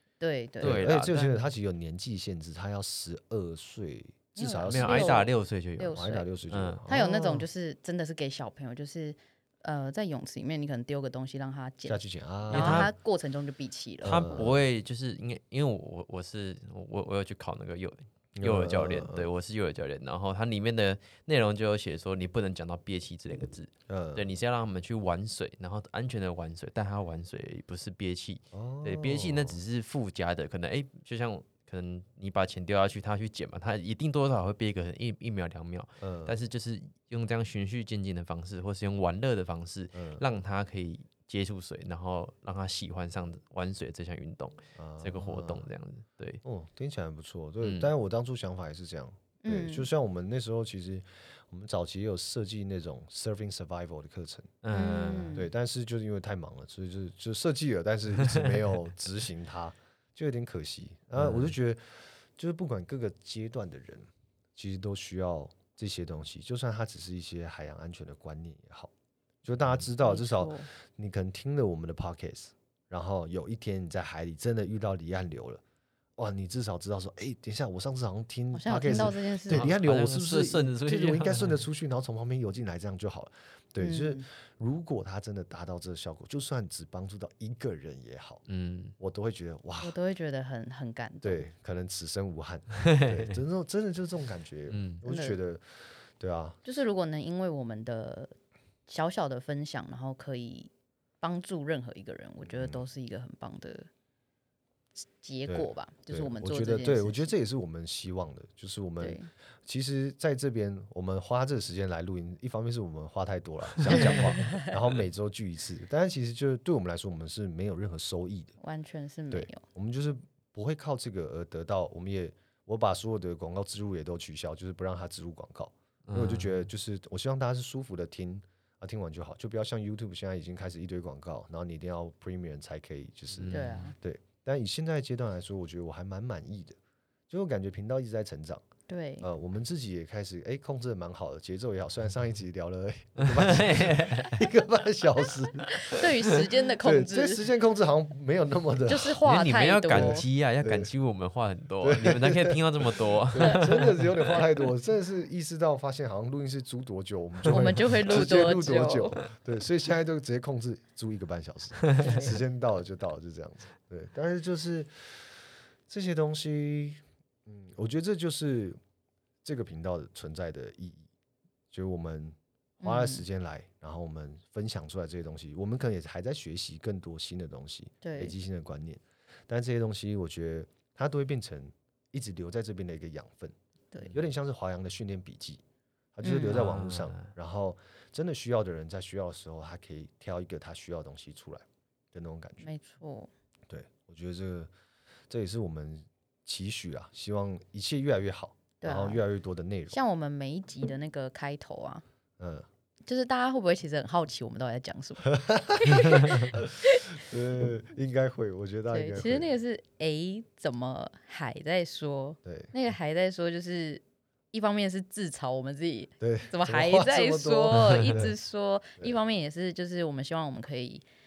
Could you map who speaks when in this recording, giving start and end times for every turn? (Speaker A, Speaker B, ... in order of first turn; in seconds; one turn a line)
Speaker A: 0.2-0.8
Speaker B: 0.6-1.4
Speaker C: 0.6-5.3
Speaker A: 4.3-6.2
Speaker B: 4.7-6.8
Speaker C: 5.9-7.5
Speaker A: 6.9-14.4
Speaker C: 11.9-12.9
Speaker B: 12.5-12.9
Speaker C: 14.0-14.6
Speaker B: 14.0-46.4
Speaker C: 18.4-19.3
Speaker C: 23.9-24.3
Speaker C: 28.5-29.6
Speaker C: 36.0-36.4
Speaker C: 39.9-40.2
Speaker C: 44.8-45.7
Speaker C: 46.4-54.5
Speaker B: 47.6-47.9
Speaker A: 49.4-49.9
Speaker B: 54.6-55.4
Speaker A: 54.7-55.5
Speaker C: 55.3-68.9
Speaker B: 61.1-61.5
Speaker C: 69.4-75.6
Speaker A: 70.0-70.7
Speaker C: 76.2-88.4
Speaker A: 78.5-79.7
Speaker B: 78.8-81.6
Speaker A: 83.8-84.2
Speaker B: 88.5-89.0
Speaker C: 89.0-90.0
Speaker A: 89.8-91.5
Speaker C: 91.2-96.6
Speaker B: 92.8-93.3
Speaker B: 94.7-95.0
Speaker A: 95.0-95.4
Speaker A: 96.6-98.3
Speaker A: 98.9-103.9
Speaker C: 102.4-102.8
Speaker A: 105.2-107.3
Speaker C: 105.5-118.5
Speaker A: 109.0-109.3
Speaker A: 113.9-114.7
Speaker A: 118.6-119.6
Speaker C: 119.3-136.8
Speaker B: 126.1-126.7
Speaker B: 133.3-133.9
Speaker A: 133.5-133.9
Speaker C: 137.3-138.7
Speaker A: 138.9-139.3
Speaker C: 139.2-146.1
Speaker B: 143.2-144.4
Speaker A: 145.7-147.4
Speaker C: 146.8-149.2
Speaker A: 148.9-150.2
Speaker B: 149.2-154.5
Speaker C: 149.9-150.9
Speaker C: 151.8-165.3
Speaker A: 157.4-159.2
Speaker A: 162.0-162.4
Speaker C: 165.9-168.8
Speaker C: 169.4-171.1
Speaker C: 171.7-183.5
Speaker A: 172.8-173.2
Speaker A: 178.0-178.3
Speaker C: 184.1-185.6
Speaker C: 186.1-192.7
Speaker A: 186.2-186.6
Speaker B: 186.4-187.3
Speaker A: 192.6-193.3
Speaker C: 193.7-194.7
Speaker C: 195.3-200.0
Speaker A: 198.8-199.2
Speaker A: 199.9-202.0
Speaker C: 202.4-202.7
Speaker A: 203.1-207.2
Speaker C: 205.3-209.5
Speaker A: 208.9-221.0
Speaker C: 212.4-212.7
Speaker C: 216.2-218.3
Speaker B: 217.7-218.0